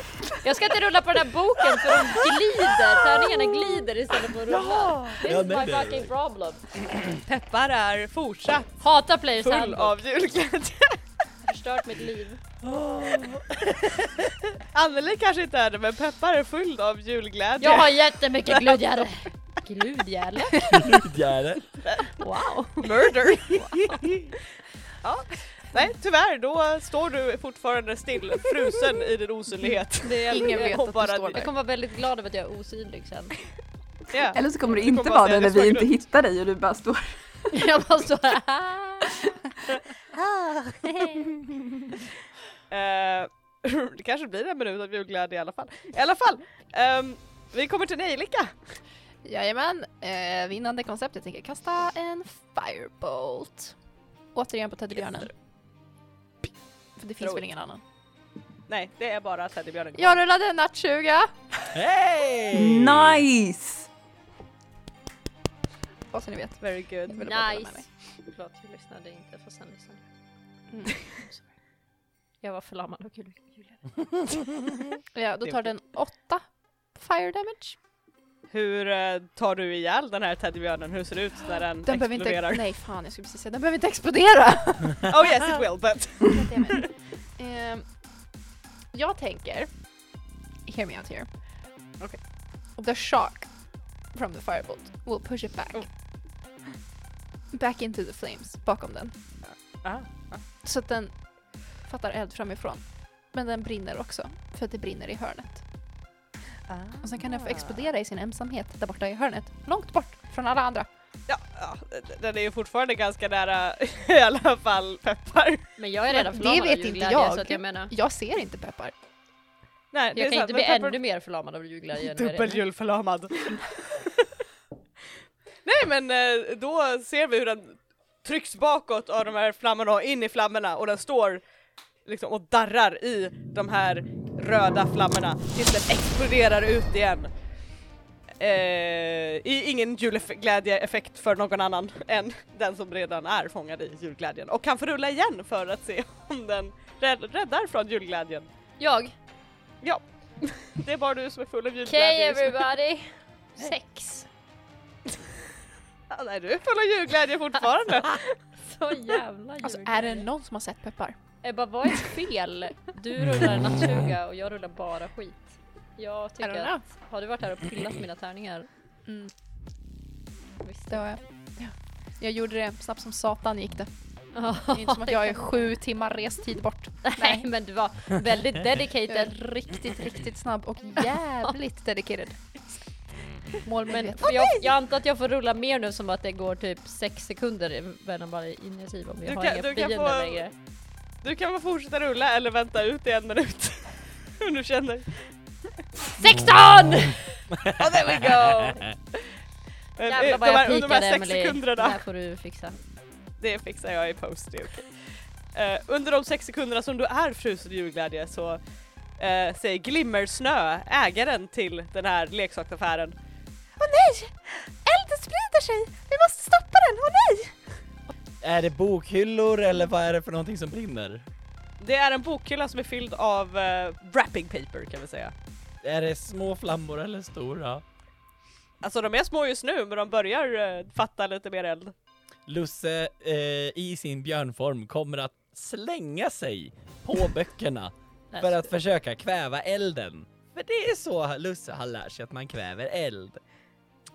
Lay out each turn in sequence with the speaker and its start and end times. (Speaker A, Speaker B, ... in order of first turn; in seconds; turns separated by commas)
Speaker A: 0.4-6.6, Speaker B: 1.8-2.9, Speaker C: 4.5-6.1, Speaker B: 7.2-8.8, Speaker A: 8.8-10.0, Speaker B: 9.4-11.0, Speaker A: 11.4-12.4, Speaker C: 12.6-14.3, Speaker B: 14.5-19.0, Speaker A: 17.6-20.7, Speaker C: 20.7-21.7, Speaker B: 21.8-22.2, Speaker A: 22.2-22.9, Speaker B: 22.8-23.9, Speaker A: 23.7-24.0, Speaker B: 25.0-31.4, Speaker A: 30.0-33.4, Speaker D: 30.3-31.5, Speaker B: 34.1-35.9, Speaker E: 34.3-37.3, Speaker A: 37.5-39.1, Speaker A: 40.7-41.3, Speaker B: 42.7-48.5, Speaker D: 49.2-53.7, Speaker D: 54.3-55.3, Speaker B: 55.0-55.3, Speaker D: 57.0-57.8, Speaker B: 58.7-60.2, Speaker D: 59.9-61.7, Speaker C: 61.7-63.2, Speaker E: 62.5-63.9, Speaker D: 66.1-67.9, Speaker B: 66.6-67.2, Speaker A: 67.1-70.0, Speaker D: 70.7-71.0, Speaker A: 71.2-71.5, Speaker A: 72.4-74.4, Speaker D: 75.1-77.8, Speaker B: 78.5-82.6, Speaker D: 81.8-85.2, Speaker B: 85.1-86.9, Speaker D: 86.3-87.9, Speaker D: 88.9-89.8, Speaker D: 90.6-91.3, Speaker D: 92.8-95.9, Speaker D: 97.5-99.1, Speaker B: 99.4-100.4, Speaker D: 100.6-105.7, Speaker B: 106.7-107.7, Speaker D: 107.0-110.9, Speaker B: 111.3-115.7, Speaker A: 115.8-117.9, Speaker D: 116.1-118.9, Speaker B: 119.9-121.0, Speaker A: 120.1-122.6, Speaker B: 122.0-124.0, Speaker B: 125.6-131.4, Speaker B: 132.0-137.3, Speaker B: 138.4-148.5, Speaker A: 148.8-149.1, Speaker B: 149.8-152.7, Speaker A: 151.8-154.3, Speaker B: 156.1-158.4, Speaker A: 158.6-160.3, Speaker D: 159.6-161.2, Speaker A: 161.4-168.7, Speaker D: 166.4-166.8, Speaker D: 169.1-169.3, Speaker A: 170.6-171.1, Speaker D: 170.9-177.5, Speaker A: 174.3-175.7, Speaker A: 177.0-179.9, Speaker D: 179.1-182.8, Speaker D: 183.6-184.6, Speaker A: 183.8-190.5, Speaker B: 189.2-190.4, Speaker B: 191.2-195.3, Speaker A: 196.2-197.2, Speaker C: 197.6-198.9, Speaker B: 197.7-199.3, Speaker B: 200.0-202.0, Speaker A: 200.0-202.8, Speaker B: 203.4-208.6, Speaker B: 209.2-213.1, Speaker F: 213.8-217.5, Speaker C: 218.4-221.3, Speaker B: 221.8-225.3, Speaker C: 225.8-227.8, Speaker B: 228.8-231.9, Speaker C: 232.5-243.4, Speaker A: 238.3-238.7